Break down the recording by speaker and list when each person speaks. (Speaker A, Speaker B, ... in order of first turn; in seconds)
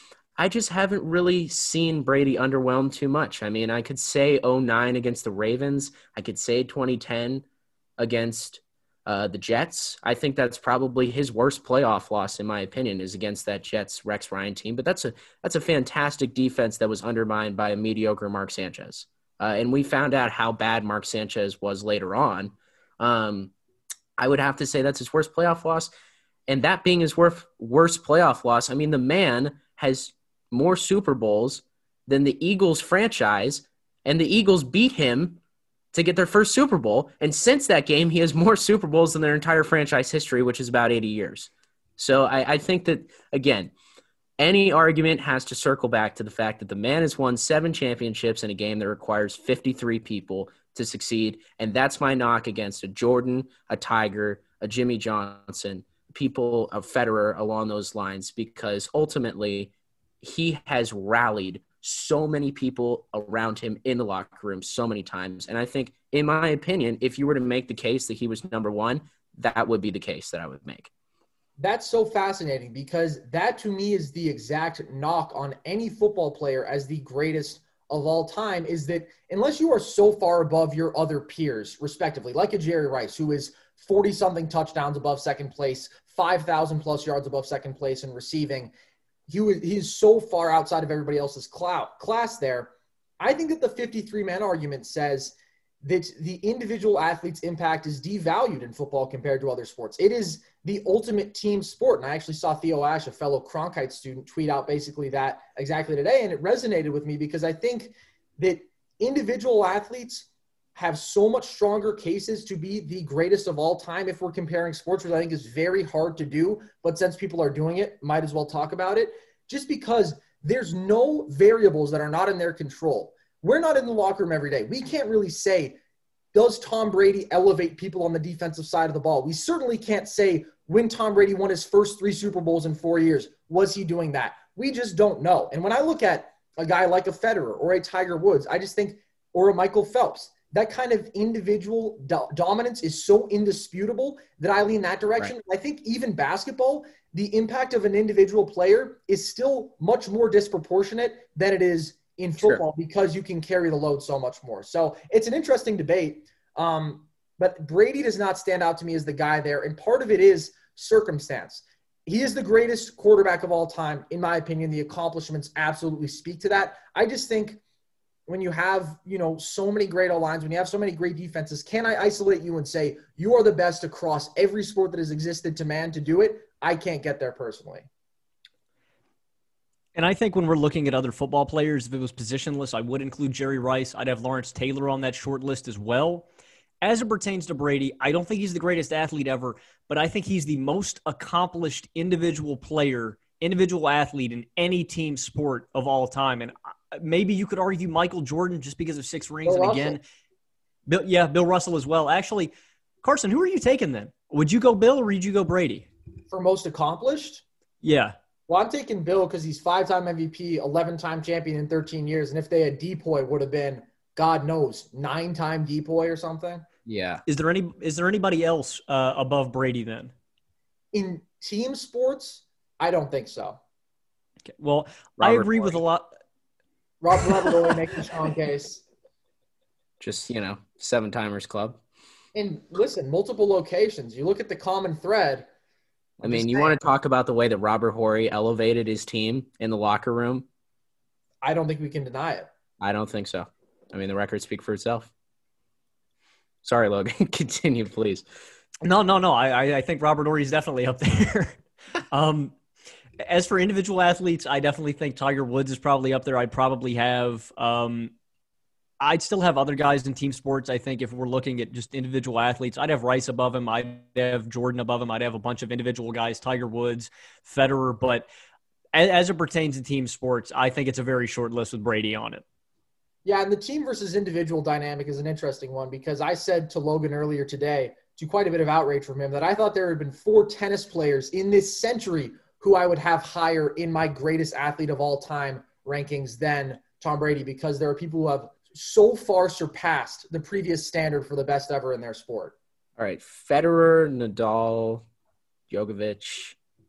Speaker A: 0.4-7.4, 8.0-23.5, 24.2-25.9, 26.5-35.4, 35.9-43.7, 44.4-70.9, 216.8-217.2, 225.2-225.8, 230.0-231.8, 236.2-240.4, 242.8-245.1, 246.6-248.2, 293.0-295.0, 295.7-296.5
Speaker B: 71.6-88.7, 89.3-125.8, 126.3-167.6, 168.3-177.9, 199.4-200.0, 206.3-207.4, 208.5-216.6, 220.9-223.6, 227.0-228.8, 232.3-235.5, 236.2-236.8, 241.4-242.5, 273.2-292.5
Speaker C: 179.9-186.2, 186.8-200.0, 200.9-205.9, 207.8-208.2, 217.2-220.1, 224.5-226.1, 248.8-251.6, 252.1-252.5, 253.2-258.1, 259.0-268.2, 268.9-272.4